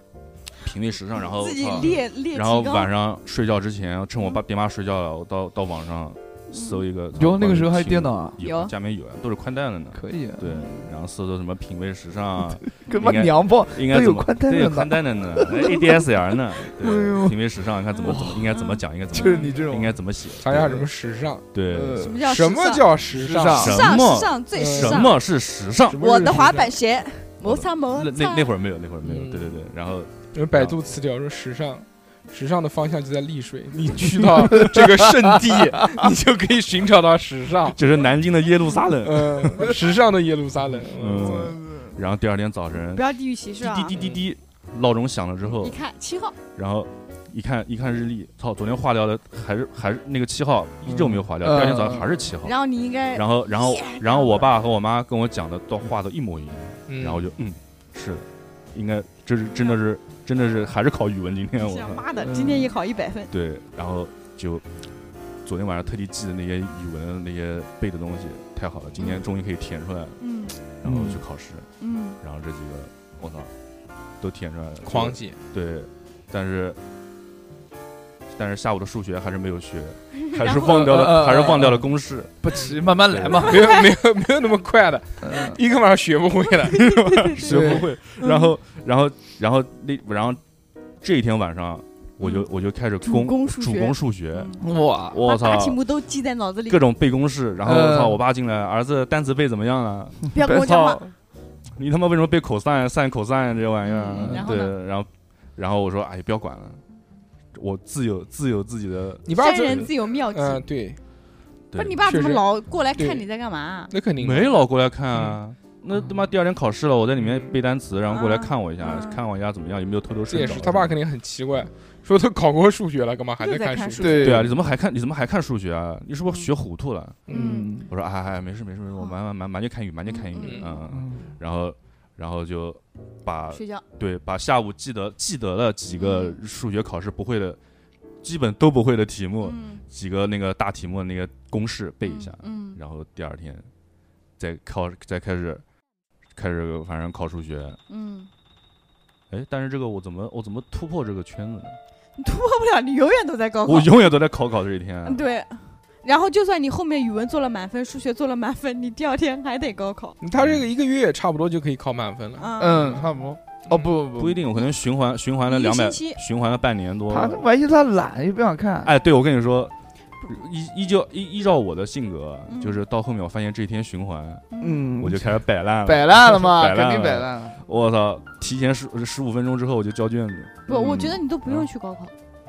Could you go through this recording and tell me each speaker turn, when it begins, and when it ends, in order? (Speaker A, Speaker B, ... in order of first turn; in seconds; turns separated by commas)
Speaker A: 0.6-20.9, Speaker B: 1.3-2.9, Speaker B: 6.5-6.8, Speaker C: 7.1-8.4, Speaker B: 8.4-8.7, Speaker C: 9.9-10.4, Speaker B: 10.5-10.9, Speaker C: 12.8-16.0, Speaker C: 16.6-17.4, Speaker B: 18.0-19.6, Speaker C: 18.0-18.5, Speaker C: 19.1-20.0, Speaker D: 20.3-21.4, Speaker A: 21.5-22.1, Speaker C: 21.7-22.2, Speaker B: 21.9-23.0, Speaker D: 22.2-23.8, Speaker C: 23.1-23.8, Speaker A: 23.5-26.0, Speaker B: 23.5-25.2, Speaker D: 24.5-25.1, Speaker D: 25.9-26.7, Speaker B: 25.9-28.5, Speaker A: 27.4-30.8, Speaker D: 29.0-29.6, Speaker D: 30.3-37.8, Speaker C: 34.5-36.1, Speaker A: 37.7-39.7, Speaker D: 39.0-41.5, Speaker A: 40.9-43.0, Speaker C: 41.1-42.0, Speaker B: 42.9-44.0, Speaker A: 43.6-45.8, Speaker D: 43.9-44.2, Speaker B: 45.5-46.4, Speaker A: 46.5-52.5, Speaker C: 51.4-52.1, Speaker B: 52.4-54.5, Speaker A: 53.1-62.0, Speaker D: 56.9-57.2, Speaker B: 59.5-59.8, Speaker B: 61.6-63.3, Speaker C: 62.1-62.7, Speaker A: 63.3-64.6, Speaker A: 65.4-70.2, Speaker B: 69.0-69.2, Speaker B: 70.2-70.6, Speaker A: 70.7-71.7, Speaker C: 70.8-71.2, Speaker B: 71.8-72.2, Speaker A: 72.2-73.5, Speaker A: 74.2-76.8, Speaker D: 74.8-75.4, Speaker A: 78.3-82.3, Speaker B: 80.2-80.8, Speaker C: 80.6-81.9, Speaker C: 82.4-83.7, Speaker A: 83.1-83.5, Speaker D: 83.4-87.3, Speaker B: 83.6-83.9, Speaker C: 85.2-85.6, Speaker B: 86.7-88.5, Speaker A: 87.2-90.4, Speaker C: 87.4-87.9, Speaker A: 91.0-94.6, Speaker B: 92.2-92.5, Speaker B: 93.0-96.8, Speaker C: 94.6-95.2, Speaker A: 95.1-95.8, Speaker A: 96.7-101.0, Speaker C: 97.6-98.2, Speaker B: 100.3-101.0, Speaker C: 100.4-101.0, Speaker A: 101.7-106.8, Speaker B: 103.8-104.8, Speaker C: 104.2-104.4, Speaker A: 107.5-109.9, Speaker D: 109.2-111.0, Speaker B: 109.3-110.7, Speaker A: 111.7-112.0, Speaker B: 111.7-113.9, Speaker D: 112.0-113.2, Speaker D: 113.9-114.6, Speaker A: 114.2-120.9, Speaker D: 117.2-117.5, Speaker B: 118.1-119.2, Speaker D: 120.3-124.3, Speaker B: 123.4-124.5, Speaker C: 124.0-124.5, Speaker A: 124.2-127.2, Speaker B: 126.2-126.5, Speaker D: 127.3-127.6, Speaker B: 127.3-127.8, Speaker C: 127.3-127.9, Speaker A: 127.8-137.6, Speaker B: 130.1-130.8, Speaker D: 130.4-130.7, Speaker C: 130.9-131.3, Speaker B: 133.5-133.8, Speaker B: 135.9-136.4, Speaker A: 138.2-143.7, Speaker B: 139.4-139.8, Speaker B: 142.0-142.8, Speaker A: 144.4-145.6, Speaker A: 146.3-147.8, Speaker B: 147.9-148.3, Speaker A: 149.3-151.8, Speaker B: 152.2-154.1, Speaker A: 153.6-155.2, Speaker B: 155.0-160.2, Speaker D: 160.2-163.1, Speaker A: 160.3-160.6, Speaker B: 162.4-163.0, Speaker C: 162.6-164.4, Speaker A: 164.1-167.4, Speaker B: 165.4-166.2, Speaker C: 167.1-168.9, Speaker A: 168.8-169.7, Speaker A: 170.2-174.4, Speaker B: 172.5-172.8, Speaker B: 174.5-174.9, Speaker C: 174.6-177.6, Speaker A: 175.0-181.7, Speaker B: 180.7-182.1